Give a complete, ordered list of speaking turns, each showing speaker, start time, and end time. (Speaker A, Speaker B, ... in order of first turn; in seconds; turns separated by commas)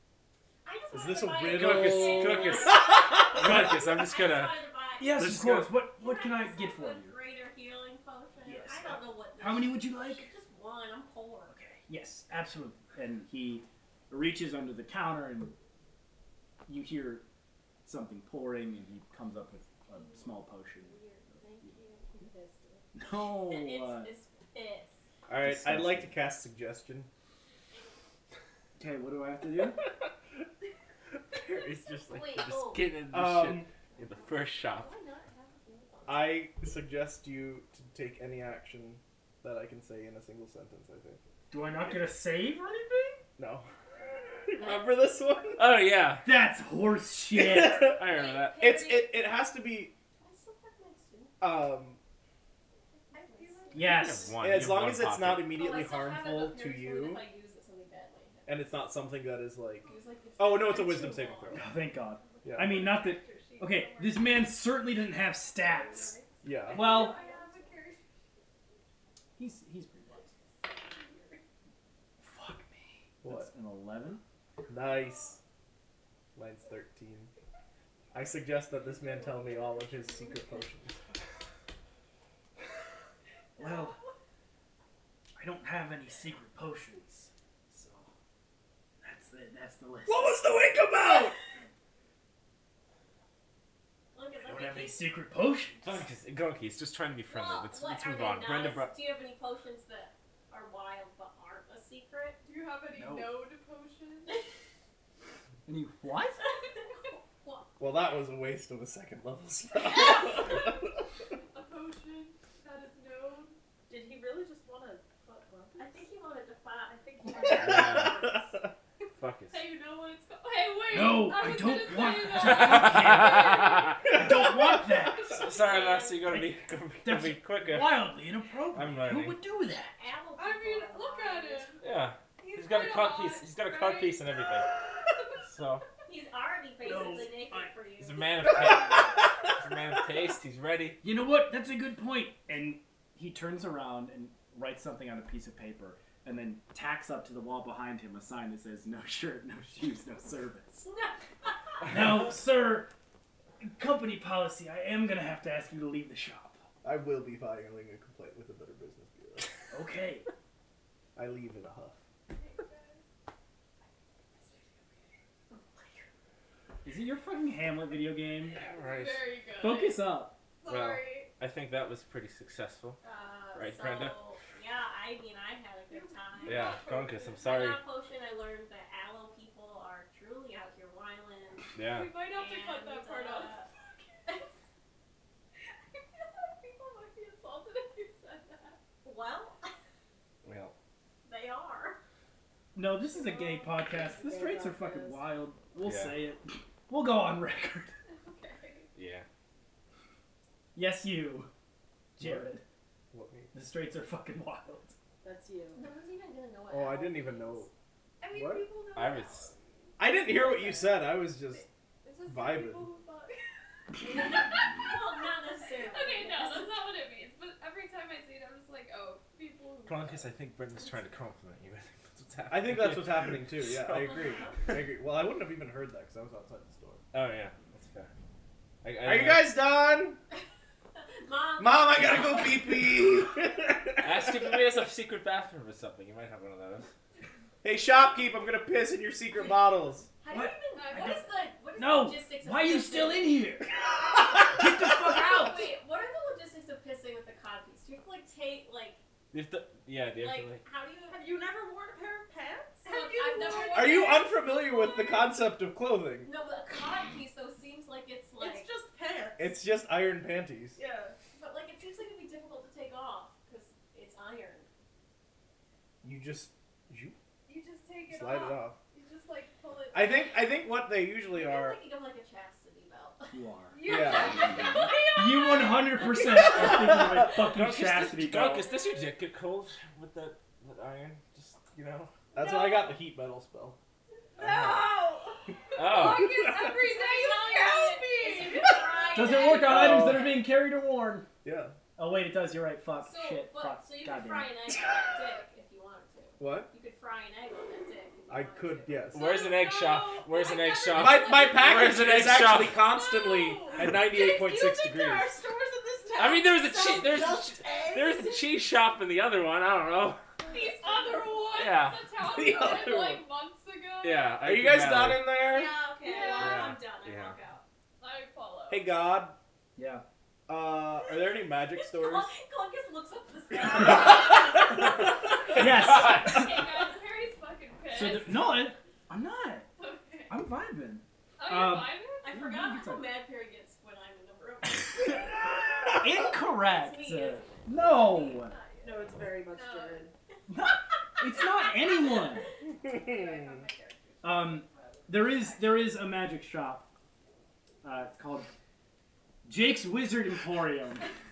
Speaker A: 0.7-5.1, Speaker B: 0.9-3.8, Speaker C: 1.5-4.6, Speaker D: 5.0-7.2, Speaker C: 5.2-5.6, Speaker B: 5.2-5.7, Speaker A: 6.0-11.5, Speaker D: 8.4-10.3, Speaker D: 11.5-15.5, Speaker D: 16.7-17.2, Speaker D: 17.9-21.0, Speaker A: 19.9-22.9, Speaker D: 22.9-24.1, Speaker A: 23.4-25.0, Speaker B: 25.3-27.1, Speaker D: 25.4-26.1, Speaker D: 28.8-29.8, Speaker C: 31.3-34.9, Speaker A: 32.0-32.9, Speaker B: 33.1-33.7, Speaker A: 34.7-36.4, Speaker B: 36.1-41.2, Speaker D: 41.5-43.2, Speaker B: 43.4-43.7, Speaker B: 44.3-45.8, Speaker A: 44.6-44.9, Speaker C: 45.6-46.3, Speaker D: 46.2-47.9, Speaker B: 47.3-48.1, Speaker C: 47.9-48.7, Speaker A: 48.1-49.4, Speaker B: 48.6-49.9, Speaker A: 50.2-51.4, Speaker B: 51.4-52.0, Speaker A: 52.9-54.3, Speaker E: 53.2-54.0, Speaker D: 53.7-54.3, Speaker C: 53.9-55.6, Speaker B: 54.4-57.2, Speaker A: 55.5-58.5, Speaker B: 58.5-61.7, Speaker A: 59.8-61.7, Speaker D: 61.5-66.2, Speaker B: 62.5-62.9, Speaker F: 62.5-64.7, Speaker F: 65.6-68.1, Speaker A: 65.7-67.7, Speaker B: 66.4-67.0, Speaker D: 66.7-67.2, Speaker D: 69.4-70.3, Speaker A: 70.7-71.4, Speaker D: 72.2-74.2, Speaker B: 73.2-73.5, Speaker B: 74.7-75.4, Speaker B: 76.4-77.3, Speaker B: 78.1-81.0, Speaker F: 79.1-80.3, Speaker D: 83.6-84.0, Speaker D: 85.4-88.1, Speaker D: 89.0-90.5, Speaker B: 90.1-91.4, Speaker A: 94.1-95.1, Speaker D: 94.4-96.1, Speaker C: 95.8-99.0, Speaker A: 97.3-102.4, Speaker F: 102.4-104.4, Speaker D: 103.0-103.4, Speaker D: 105.7-106.4, Speaker A: 106.5-107.7, Speaker B: 107.8-110.8, Speaker A: 109.8-110.6, Speaker F: 111.5-113.6, Speaker E: 113.9-116.0, Speaker A: 115.8-118.6, Speaker C: 117.5-118.3, Speaker B: 117.7-118.0, Speaker C: 119.2-119.7, Speaker A: 119.5-121.0, Speaker F: 120.5-123.8, Speaker D: 120.9-125.3, Speaker C: 122.4-124.0, Speaker F: 124.6-126.0, Speaker C: 125.3-128.2, Speaker A: 125.4-126.3, Speaker D: 127.0-130.0, Speaker C: 128.7-129.4, Speaker A: 130.0-131.8, Speaker F: 130.4-131.8, Speaker C: 131.8-134.7, Speaker F: 132.4-134.4, Speaker C: 135.4-135.8, Speaker A: 136.1-138.5, Speaker D: 136.8-137.7, Speaker C: 138.0-141.0, Speaker D: 141.0-150.9, Speaker A: 150.9-151.1, Speaker D: 151.9-152.9, Speaker D: 153.6-156.6, Speaker B: 156.8-159.5, Speaker D: 159.7-160.3, Speaker B: 161.2-162.0, Speaker F: 162.3-163.1, Speaker A: 165.5-166.1, Speaker D: 166.8-168.6, Speaker C: 168.6-169.3, Speaker F: 168.7-171.3, Speaker D: 169.6-170.4, Speaker C: 170.7-173.0, Speaker A: 173.0-181.7, Speaker C: 173.5-174.2, Speaker F: 175.9-177.4, Speaker C: 176.4-177.8, Speaker C: 181.8-182.2, Speaker F: 181.8-184.5, Speaker A: 182.3-183.7, Speaker F: 185.9-188.8, Speaker A: 189.0-189.7, Speaker C: 190.4-190.8, Speaker A: 191.2-192.0, Speaker D: 192.7-197.9, Speaker F: 193.2-193.7, Speaker E: 193.9-195.3, Speaker C: 195.8-196.3, Speaker A: 198.2-198.8, Speaker C: 198.9-199.2, Speaker D: 200.8-201.5, Speaker D: 202.2-202.6, Speaker B: 202.2-202.5, Speaker B: 203.1-203.5, Speaker D: 203.5-205.0, Speaker E: 205.2-205.8, Speaker A: 205.7-207.7, Speaker B: 206.7-207.7, Speaker F: 208.2-220.3, Speaker B: 208.3-208.7, Speaker C: 208.9-209.5, Speaker B: 210.0-211.7, Speaker B: 212.2-212.9, Speaker A: 214.0-216.7, Speaker C: 219.9-224.3, Speaker B: 222.5-227.0, Speaker C: 227.1-228.1, Speaker C: 228.8-229.5, Speaker B: 229.0-230.2, Speaker A: 231.1-232.7, Speaker B: 231.6-234.6, Speaker C: 234.0-236.9, Speaker B: 237.6-240.1, Speaker A: 240.2-243.5, Speaker D: 240.3-243.7, Speaker F: 240.8-241.3, Speaker D: 244.2-245.7, Speaker A: 245.1-249.0, Speaker C: 249.3-250.6, Speaker A: 250.2-251.2, Speaker E: 251.1-253.7, Speaker A: 252.9-255.3, Speaker F: 252.9-254.3, Speaker B: 253.6-256.3, Speaker A: 256.2-258.7, Speaker E: 258.4-259.5, Speaker B: 259.4-260.8, Speaker E: 260.8-261.2, Speaker A: 261.4-264.7, Speaker B: 266.0-267.2, Speaker F: 267.5-270.6, Speaker B: 268.1-268.8, Speaker B: 269.9-271.8, Speaker A: 271.3-273.4, Speaker D: 273.3-273.8, Speaker F: 273.7-275.0, Speaker B: 273.8-274.5, Speaker A: 274.0-276.8, Speaker D: 275.0-278.6, Speaker B: 276.6-277.3, Speaker C: 277.4-282.3, Speaker B: 282.3-283.8, Speaker F: 282.4-282.9, Speaker E: 284.4-285.4, Speaker C: 284.4-284.9, Speaker C: 285.8-286.5, Speaker F: 285.9-288.7, Speaker A: 286.6-290.0, Speaker E: 287.7-289.1, Speaker D: 289.1-291.3, Speaker B: 289.6-290.4, Speaker B: 291.4-291.7, Speaker D: 292.0-294.5, Speaker A: 293.1-299.5, Speaker B: 296.4-296.7, Speaker B: 298.3-299.3, Speaker C: 299.1-302.8, Speaker F: 299.2-300.7, Speaker A: 300.3-301.9, Speaker B: 300.9-305.4, Speaker F: 302.8-303.9, Speaker E: 303.9-308.5, Speaker C: 306.2-310.2, Speaker F: 310.4-314.4, Speaker A: 310.5-311.3, Speaker C: 311.6-312.1, Speaker B: 312.2-313.2, Speaker C: 314.0-315.4, Speaker B: 314.4-315.7, Speaker A: 315.5-317.6, Speaker F: 316.0-316.7, Speaker C: 316.4-317.4, Speaker F: 318.0-319.0, Speaker B: 318.7-319.4, Speaker D: 319.8-320.0, Speaker B: 320.5-322.3, Speaker A: 321.7-325.6, Speaker C: 325.6-326.4, Speaker D: 325.6-326.5, Speaker F: 325.6-328.8, Speaker D: 327.9-329.7, Speaker F: 329.8-330.3, Speaker D: 330.3-333.2, Speaker F: 331.4-332.3, Speaker A: 332.2-337.7, Speaker D: 336.0-338.6, Speaker F: 337.7-340.1, Speaker E: 338.8-340.1, Speaker D: 340.5-342.5, Speaker A: 341.9-342.4, Speaker F: 342.8-345.9, Speaker B: 343.0-343.6, Speaker D: 344.2-346.9, Speaker D: 347.8-348.5, Speaker D: 349.4-351.1